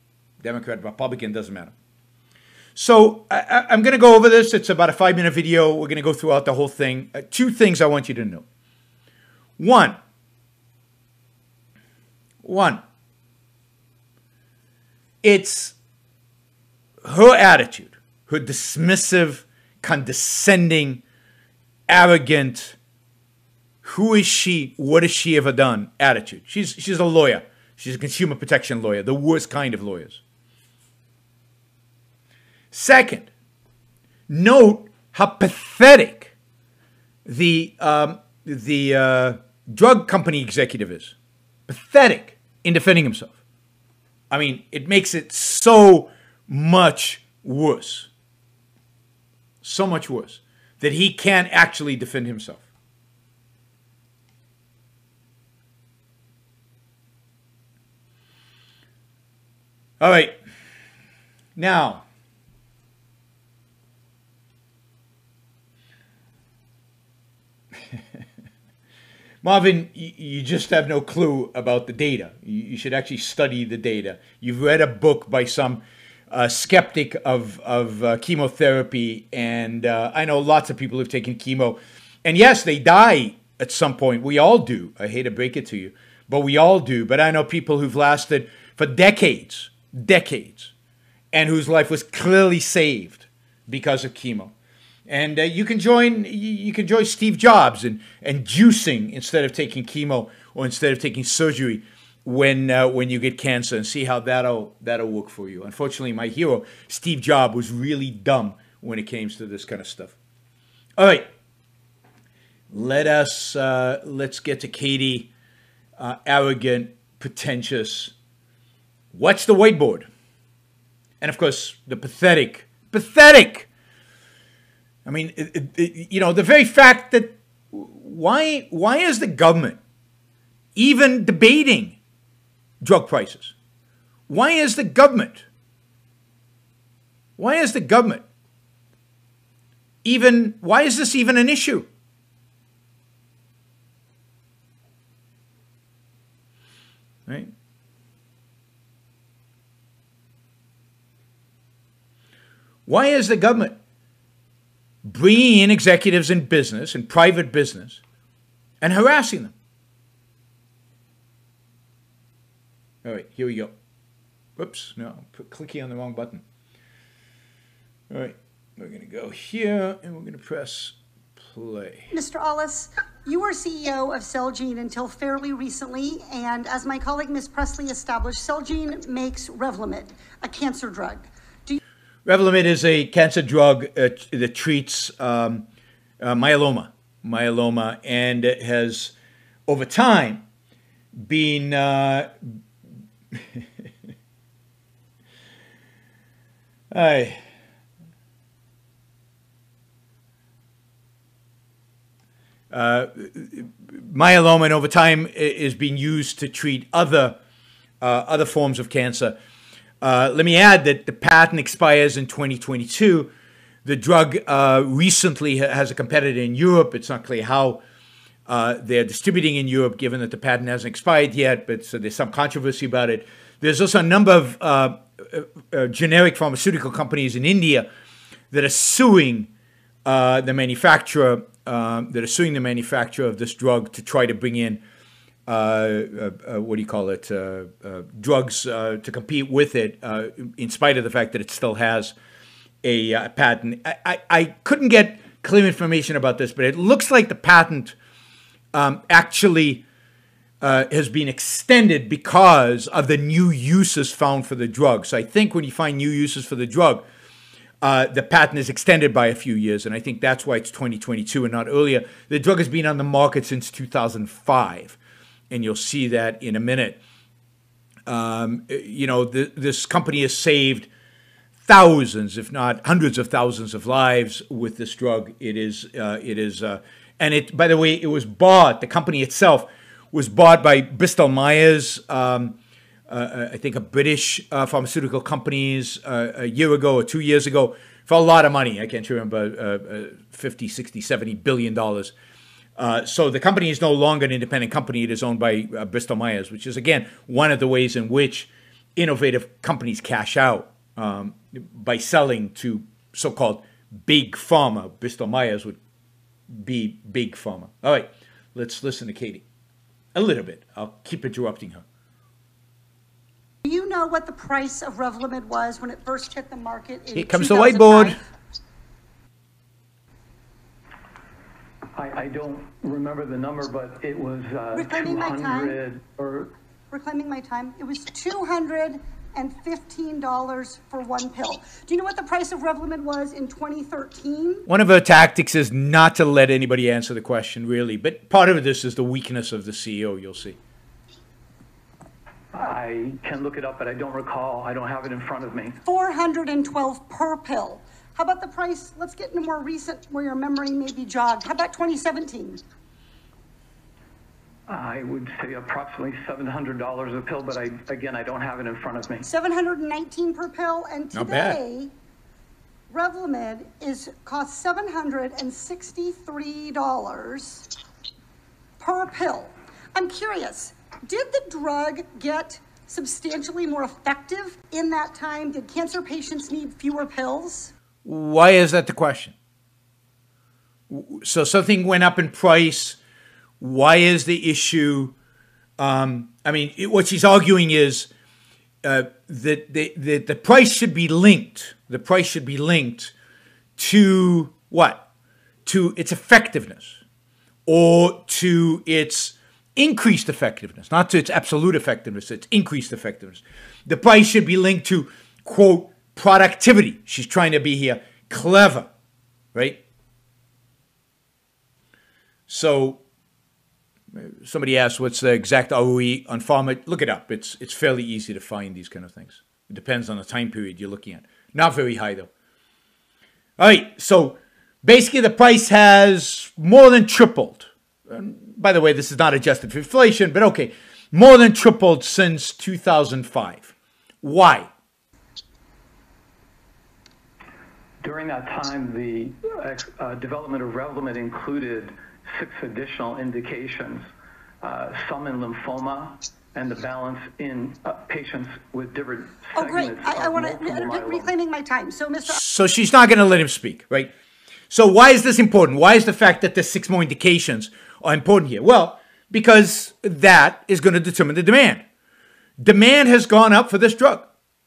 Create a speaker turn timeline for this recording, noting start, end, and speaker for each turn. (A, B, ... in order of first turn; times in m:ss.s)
0:00.4-0:01.7 A
0:02.8-0:08.4 A
0:09.6-0:10.0 A
0:12.4-0:12.8 A
0:15.2-0:15.8 A
0:17.0-0:21.0 A
0:21.9-0:22.8 A
0:23.8-0:30.2 A
0:32.7-0:33.3 A
0:34.3-0:36.3 A
0:37.2-0:41.1 A
0:41.7-0:43.3 A
0:44.3-0:48.1 A
0:49.6-0:52.6 A
1:00.0-1:00.4 A
1:01.6-1:02.0 A
1:09.4-1:30.7 A
1:31.3-1:34.5 A
1:35.1-1:50.1 A
1:51.0-1:51.3 A
1:52.7-1:55.3 A
1:56.0-1:58.1 A
1:59.1-2:00.1 A
2:01.2-2:03.7 A
2:05.0-2:09.8 A
2:10.8-2:12.0 A
2:12.8-2:13.5 A
2:14.3-2:15.4 A
2:17.4-2:18.2 A
2:20.0-2:21.9 A
2:32.9-2:33.8 A
2:35.0-2:38.0 A
2:38.8-2:39.5 A
2:43.0-2:43.7 A
2:44.6-2:46.4 A
2:48.1-2:52.1 A
2:52.1-3:01.8 B
3:02.2-3:05.6 A
3:06.2-3:09.1 A
3:09.7-3:10.4 A
3:11.2-3:12.5 A
3:13.3-3:13.6 A
3:16.9-3:17.4 A
3:22.7-3:27.4 A
3:28.0-3:29.4 A
3:30.0-3:33.3 A
3:33.8-3:37.8 A
3:38.5-3:47.9 A
3:48.5-3:49.5 A
3:50.0-3:54.8 A
3:55.5-4:02.1 A
4:02.8-4:07.9 A
4:08.7-4:09.8 A
4:10.6-4:17.0 A
4:17.8-4:25.0 A
4:25.5-4:27.0 A
4:28.1-4:30.9 A
4:31.6-4:42.6 A
4:43.1-4:52.1 A
4:52.8-5:05.8 A
5:06.5-5:09.4 A
5:10.1-5:11.8 A
5:13.6-5:18.3 B
5:17.1-5:18.2 A
5:21.9-5:26.5 C
5:24.7-5:25.8 B
5:26.9-5:34.6 B
5:34.7-5:40.6 A
5:42.5-5:45.8 C
5:45.8-5:52.6 B
5:54.7-5:59.2 C
5:59.2-6:01.9 B
6:01.1-6:01.6 A
6:02.9-6:07.6 B
6:08.8-6:17.7 B
6:18.0-6:19.3 A
6:20.9-6:23.0 A
6:23.6-6:25.1 A
6:25.8-6:28.1 A
6:28.8-6:33.1 A
6:33.8-6:35.0 A
6:35.6-6:37.0 A
6:37.6-6:48.9 A
6:49.5-6:49.8 A
6:52.5-6:53.0 A
6:54.1-7:02.3 A
7:03.6-7:13.7 A
7:14.2-7:14.7 A
7:18.0-7:24.0 C
7:24.6-7:31.3 C
7:29.6-7:32.4 B
7:32.2-7:34.1 A
7:34.7-7:41.8 A
7:42.6-7:44.3 A